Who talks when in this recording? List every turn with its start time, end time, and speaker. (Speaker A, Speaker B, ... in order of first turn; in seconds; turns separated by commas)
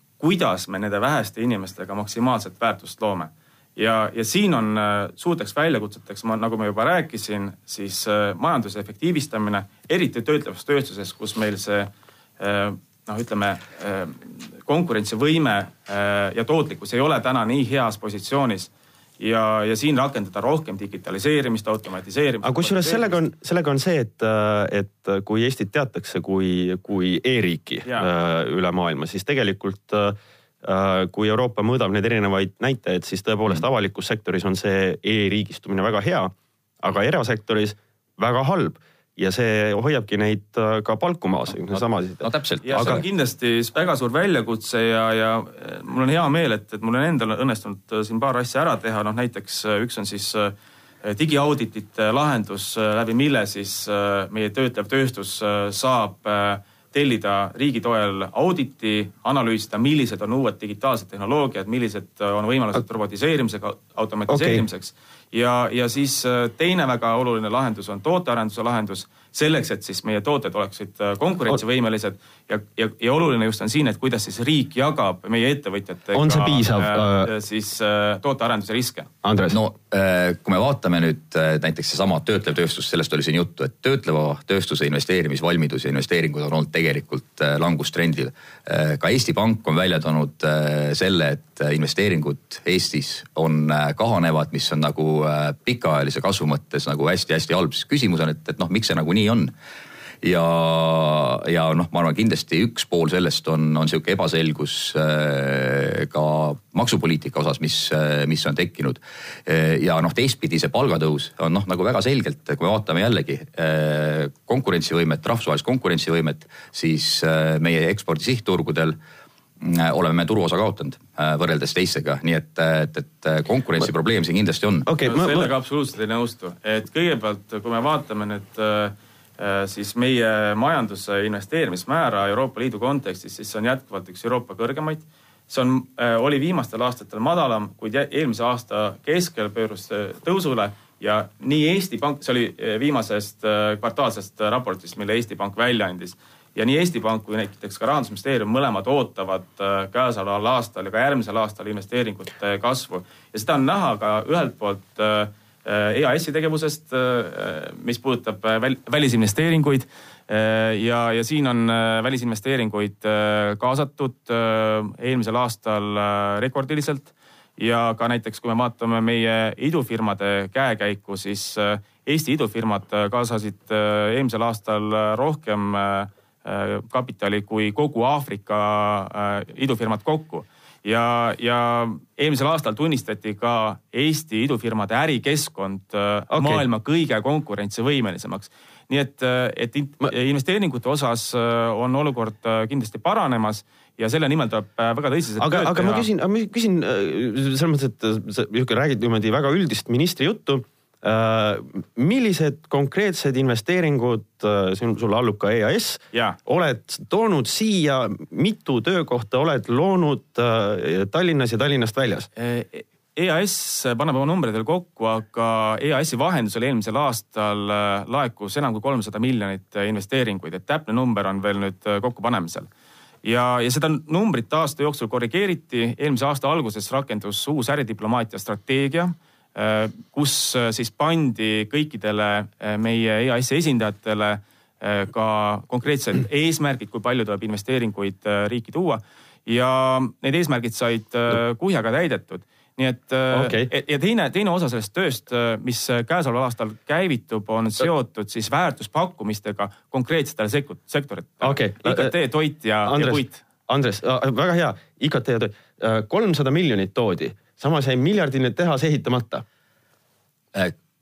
Speaker A: 0.2-23.2, Speaker B: 22.4-43.0, Speaker C: 42.2-43.0, Speaker A: 42.6-79.1, Speaker B: 64.3-64.6, Speaker B: 76.1-77.3, Speaker B: 79.2-79.6, Speaker C: 79.5-99.5, Speaker C: 100.2-119.0, Speaker C: 119.6-124.9, Speaker B: 124.8-125.5, Speaker A: 125.0-196.1, Speaker B: 186.3-186.6, Speaker B: 195.4-212.3, Speaker A: 212.4-222.7, Speaker A: 223.2-253.4, Speaker B: 243.3-243.7, Speaker B: 251.4-252.1, Speaker B: 252.8-259.4